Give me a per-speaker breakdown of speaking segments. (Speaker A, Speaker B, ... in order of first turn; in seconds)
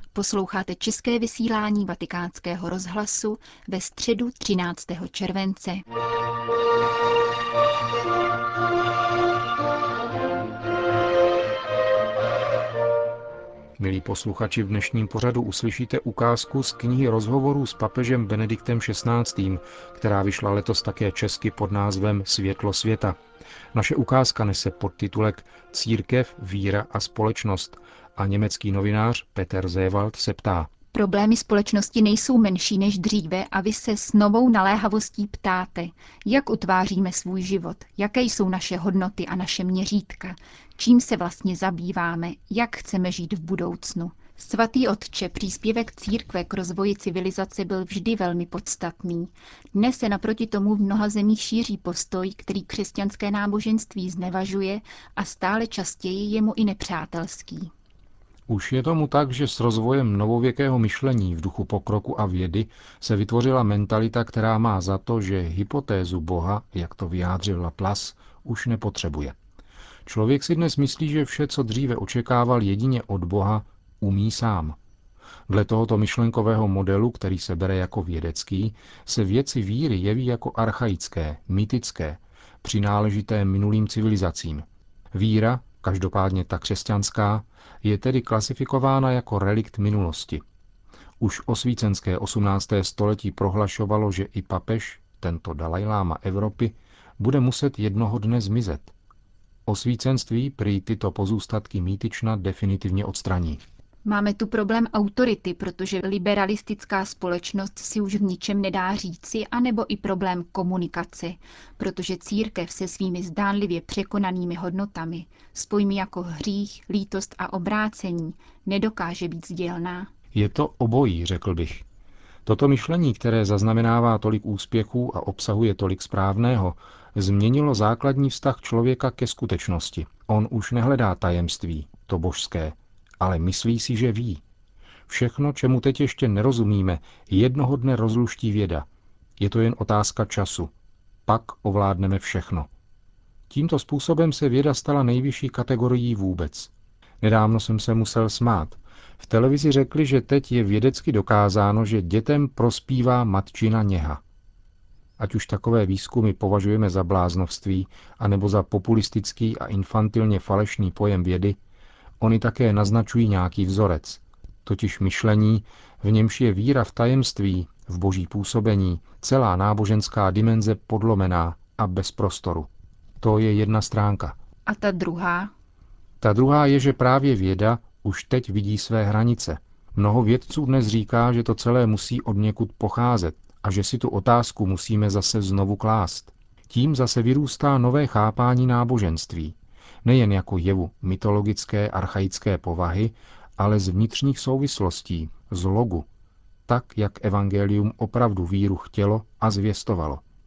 Speaker A: 0.1-5.8, 30.9-57.7, 104.0-120.1, 174.7-175.5
Speaker B: 13.8-23.2, 23.7-30.7, 58.5-69.3, 70.1-74.8, 75.5-90.4, 91.2-98.9, 99.7-103.6, 120.3-121.8, 122.5-134.4, 135.1-138.9, 139.4-140.7, 141.3-142.7, 143.5-154.2, 155.2-161.6, 162.2-172.7, 173.2-174.4, 176.2-196.1, 196.7-200.2